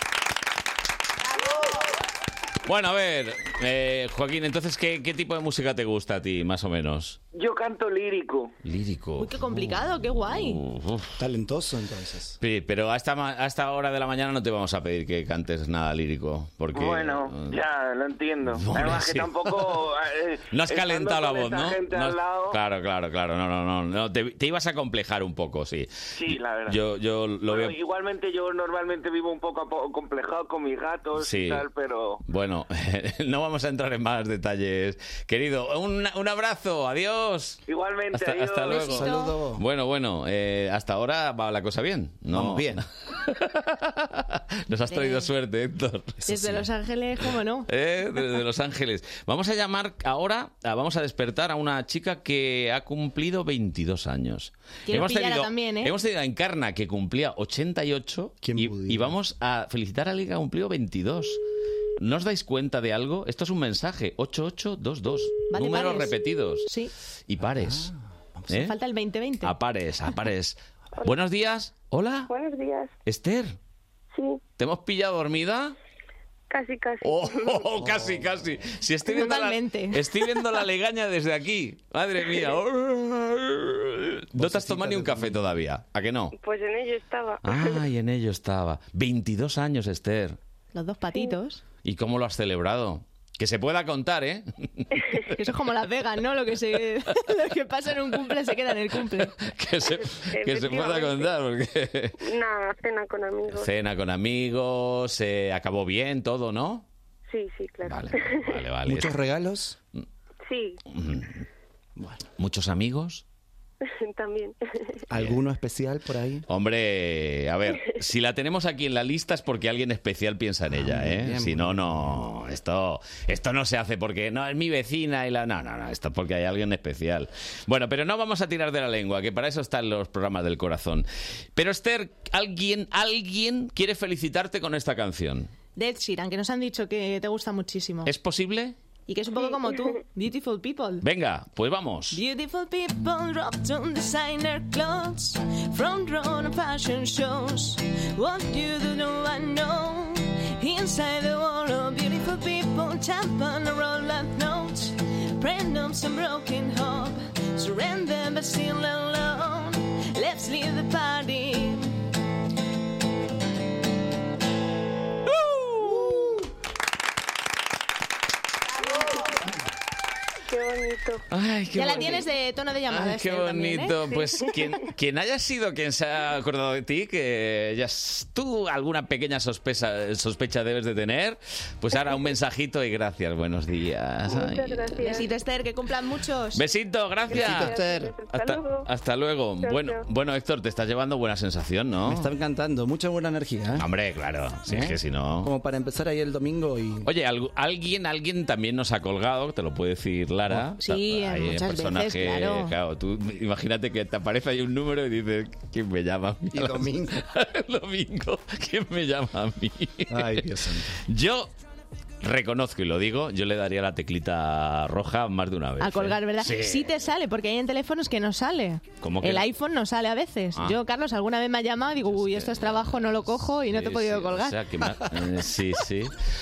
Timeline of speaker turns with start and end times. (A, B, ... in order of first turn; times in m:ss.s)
0:02.7-0:07.2 A
0:07.3-0:08.5 B
0:08.6-0:09.3 A
0:09.2-0:10.6 C
0:10.3-0:11.2 A
0:11.2-0:12.4 D
0:12.4-0:17.5 A
0:16.7-0:22.6 B
0:18.5-0:19.4 A
0:20.5-0:25.9 A
0:26.2-0:26.8 B
0:26.7-0:27.8 A
0:27.5-0:32.2 B
0:31.2-0:31.6 A
0:32.2-0:37.6 A
0:37.7-0:38.9 B
0:38.1-0:46.2 A
0:38.7-0:39.6 D
0:38.7-0:39.3 C
0:42.3-0:42.8 D
0:44.9-0:45.3 C
0:46.3-0:47.7 C
0:47.7-1:01.4 A
0:54.9-0:55.9 C
0:58.4-0:59.2 D
1:02.0-1:06.7 A
1:05.5-1:06.1 C
1:06.7-1:06.9 C
1:07.3-1:07.9 A
1:07.5-1:08.6 D
1:08.5-1:08.8 A
1:08.5-1:09.5 C
1:09.4-1:12.3 A
1:12.3-1:12.9 E
1:13.0-1:13.6 A
1:14.1-1:14.4 E
1:14.6-1:15.8 A
1:16.5-1:17.7 E
1:17.0-1:26.4 A
1:19.1-1:20.0 C
1:24.4-1:25.4 D
1:26.4-1:27.8 E
1:27.4-1:30.4 A
1:30.7-1:31.6 C
1:31.8-1:34.8 A
1:35.3-1:39.3 C
1:39.4-1:42.2 A
1:40.1-1:41.3 E
1:42.2-1:43.7 E
1:43.5-1:46.8 A
1:47.3-1:48.6 E
1:47.8-1:49.1 A
1:48.9-1:49.8 D
1:50.4-1:50.8 E
1:50.9-1:51.4 A
1:52.0-1:52.2 D
1:52.4-1:53.2 A
1:53.8-1:55.0 E
1:55.1-1:56.4 D
1:56.5-2:15.5 A
2:00.7-2:02.3 D
2:15.8-2:18.1 C
2:18.0-2:18.8 A
2:19.1-2:21.0 C
2:21.0-2:22.2 A
2:22.2-2:42.0 F
2:48.8-2:49.3 E
2:50.5-2:51.2 E
2:51.3-2:52.3 A
2:51.8-2:54.1 C
2:51.9-2:52.2 E
2:52.9-3:05.0 A
3:04.3-3:05.3 E
3:05.0-3:06.6 C
3:06.5-3:07.8 A
3:07.3-3:08.1 D
3:07.5-3:08.9 E
3:08.3-3:12.3 A
3:09.6-3:10.0 E
3:12.1-3:13.9 D
3:13.8-3:15.5 A
3:14.7-3:17.1 D
3:17.0-3:31.5 A
3:20.8-3:22.7 C
3:26.5-3:27.2 D
3:30.1-3:31.0 D
3:32.2-3:36.9 A
3:35.8-3:44.6 C
3:39.0-3:39.5 A
3:42.1-3:46.2 A